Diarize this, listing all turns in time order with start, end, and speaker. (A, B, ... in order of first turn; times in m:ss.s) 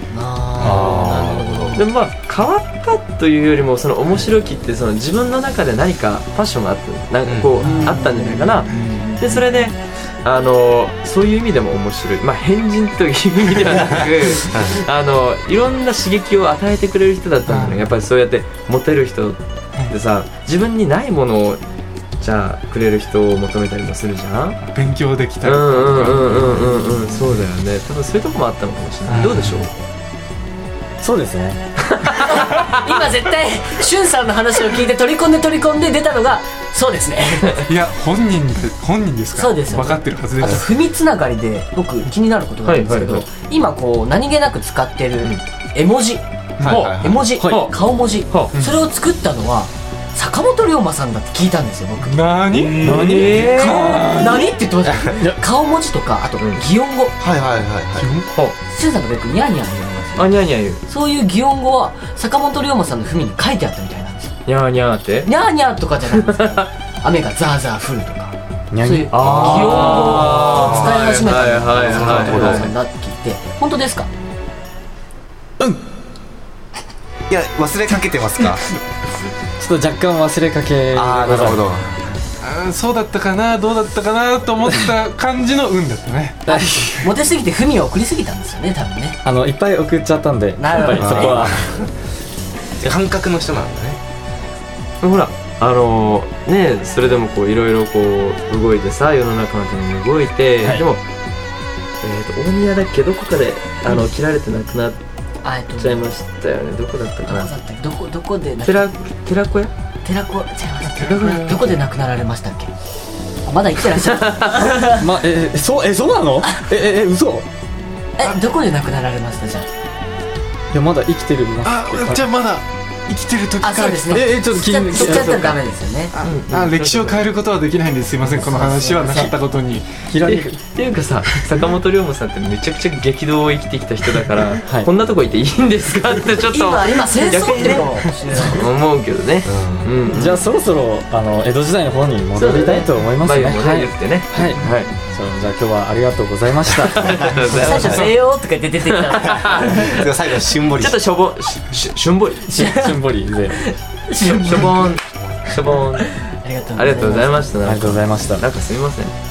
0:00.1-0:01.8 A
0:00.6-0:01.4 B
0:00.7-0:01.8 C
0:01.8-0:21.6 D
0:07.2-0:07.7 C
0:07.6-0:09.4 A
0:13.8-0:14.7 C
0:17.5-0:17.8 E
0:22.2-0:24.6 D
0:24.6-0:26.9 E
0:25.4-0:29.7 D
0:29.1-0:29.6 E
0:31.0-0:31.6 B
0:31.8-0:33.0 D
0:32.2-0:37.7 A
0:37.6-0:40.6 E
0:39.3-0:46.2 A
0:42.6-0:43.3 D
0:46.6-0:46.9 E
0:46.6-0:47.3 C
0:46.6-0:47.8 D
0:46.9-0:57.2 A
0:47.4-0:47.7 B
0:48.3-0:48.5 D
0:52.1-0:54.5 E
0:52.7-0:53.8 D
0:52.8-0:53.5 B
0:55.1-0:55.4 B
0:56.4-0:56.6 D
0:57.2-0:58.1 C
0:58.0-0:58.4 E
0:58.6-1:04.4 A
1:00.2-1:00.8 D
1:04.4-1:05.3 D
1:05.2-1:14.1 A
1:06.2-1:06.6 D
1:08.7-1:09.2 B
1:09.1-1:12.7 D
1:09.1-1:10.9 C
1:11.8-1:12.7 C
1:17.3-1:18.6 C
1:19.6-1:21.6 B
1:20.9-1:22.0 C
1:22.4-1:27.1 E
1:26.5-1:29.2 A
1:29.2-1:31.6 B
1:30.6-1:31.5 A
1:30.7-1:31.4 D
1:31.0-1:31.9 C
1:32.8-1:34.0 C
1:35.0-1:41.0 D
1:42.0-1:45.0 D
1:45.4-1:46.1 A
1:45.7-1:47.5 D
1:47.2-1:48.9 A
1:48.6-1:49.7 D
1:50.0-1:52.7 A
1:50.9-1:51.7 E
1:53.4-1:55.0 A
1:54.0-1:54.6 D
1:54.8-1:57.4 B
1:58.2-1:59.7 A
2:00.7-2:02.2 B
2:01.6-2:04.4 E
2:03.6-2:06.1 A
2:04.1-2:05.6 B
2:06.2-2:07.3 D
2:06.5-2:09.9 E
2:08.2-2:09.3 A
2:10.1-2:10.6 B
2:10.2-2:20.4 D
2:16.5-2:18.6 A
2:19.4-2:19.9 C
2:20.1-2:27.6 B
2:22.3-2:24.9 D
2:26.8-2:28.1 D
2:27.4-2:28.0 C
2:27.5-2:30.0 A
2:28.9-2:30.1 D
2:29.4-2:31.0 C
2:30.7-2:32.6 D
2:32.4-2:34.9 A
2:32.5-2:33.7 B
2:34.2-2:36.1 D
2:36.0-2:37.4 A
2:36.7-2:39.1 D
2:37.6-2:38.4 B